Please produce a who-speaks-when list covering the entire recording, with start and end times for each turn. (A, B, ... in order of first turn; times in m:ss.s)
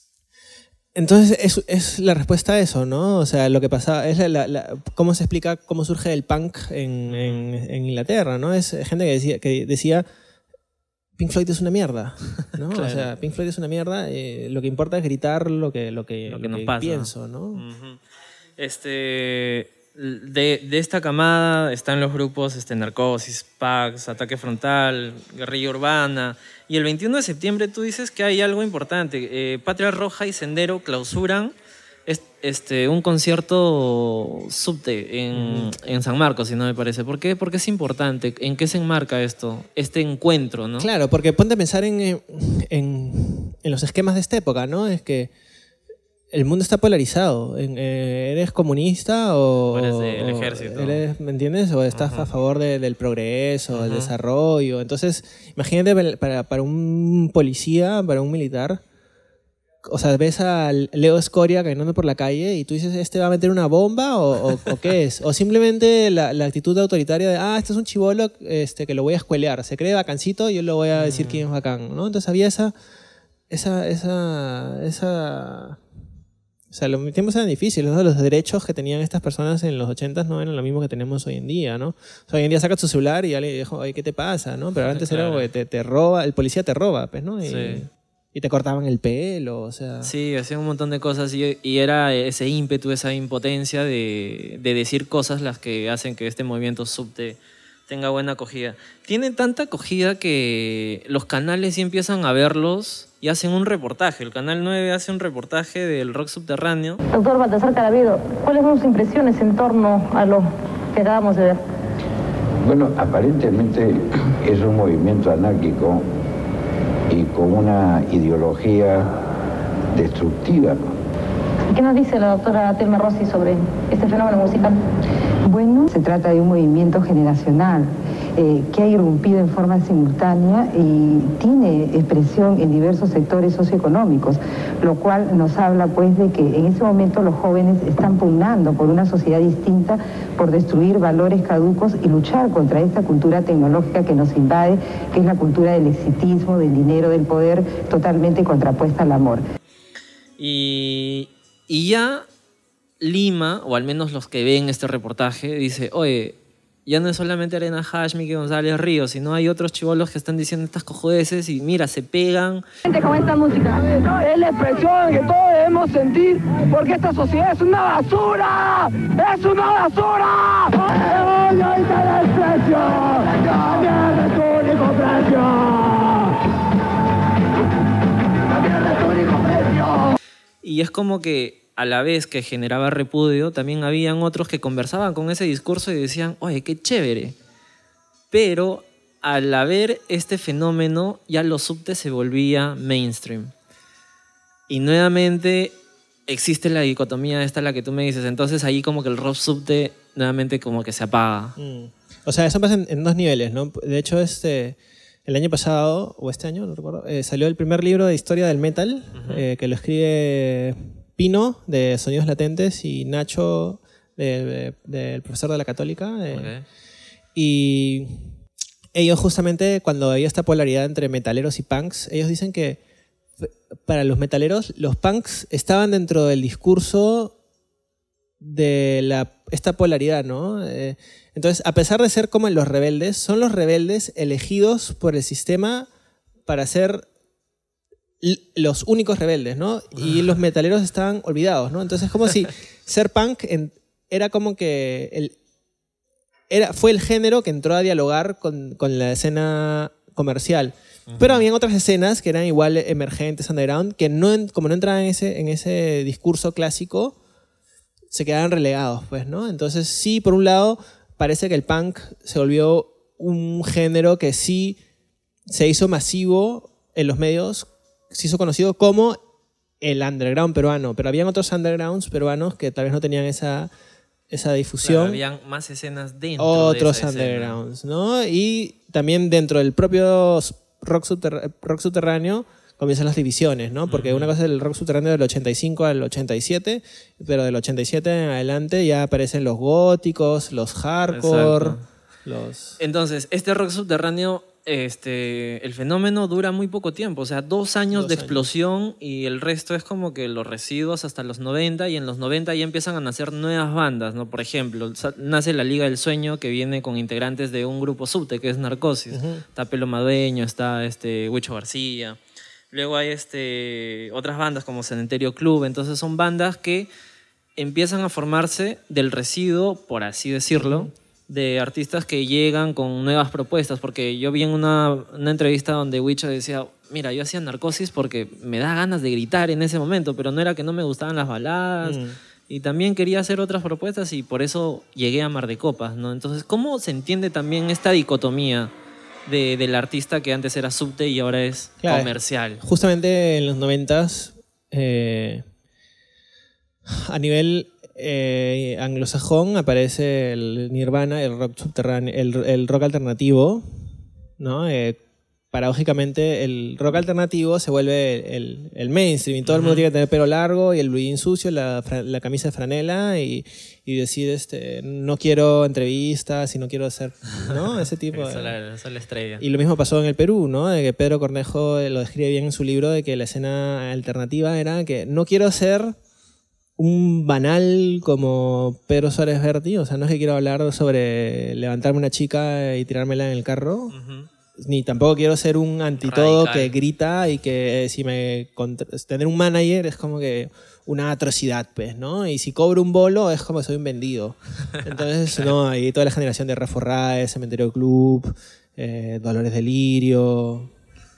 0:00.9-0:10.1 A
0:07.1-0:07.4 B
0:11.2-0:17.6 A
0:12.7-0:13.1 B
0:16.3-0:18.0 B
0:18.6-0:31.5 B
0:32.1-0:40.9 B
0:35.3-0:35.7 A
0:40.8-0:45.3 A
0:46.3-0:58.8 A
0:49.7-0:51.0 B
0:51.9-0:52.3 B
0:53.7-0:54.1 B
0:59.8-1:12.7 A
1:10.9-1:11.4 B
1:13.5-1:15.8 A
1:16.7-1:30.1 A
1:24.8-1:25.5 B
1:27.4-1:27.8 B
1:30.0-1:47.0 B
1:47.1-1:51.6 C
1:52.6-1:56.1 D
1:57.1-1:59.1 D
1:59.9-2:00.8 D
2:01.7-2:04.8 C
2:05.4-2:29.4 E
2:30.4-2:32.2 B
2:33.0-2:42.6 B
2:42.9-2:56.0 F
2:58.9-2:59.7 F
3:00.6-3:07.4 B
3:08.3-3:13.5 B
3:14.7-3:15.7 B
3:16.3-3:21.6 B
3:21.6-3:36.5 A
3:29.2-3:29.4 B
3:36.3-3:36.6 B
3:37.4-3:38.4 A
3:38.9-3:42.8 A
3:43.4-3:47.4 A
3:48.4-3:55.9 A
3:56.4-3:57.1 A
3:58.2-4:05.4 A
3:59.9-4:00.4 B
4:06.5-4:17.2 A
4:11.1-4:11.4 B
4:18.1-4:24.8 A
4:25.5-4:29.2 A
4:29.8-4:33.7 A
4:34.3-4:35.2 A
4:34.8-4:37.6 B
4:36.4-4:52.8 A
4:43.9-4:44.3 B
4:51.1-4:51.8 B
4:52.8-5:12.2 B
4:57.9-4:58.4 A
5:09.1-5:09.4 A
5:12.7-5:16.9 B
5:17.6-5:38.7 B
5:20.6-5:20.9 A
5:31.8-5:32.2 A
5:39.3-5:42.6 B
5:41.8-5:45.4 A
5:46.9-5:55.0 A
5:55.5-6:08.5 A
5:59.5-5:59.8 B
6:08.1-6:09.4 B
6:09.4-6:16.0 A
6:16.8-6:23.9 A
6:23.9-6:24.3 B
6:24.6-6:40.7 A
6:26.0-6:26.8 B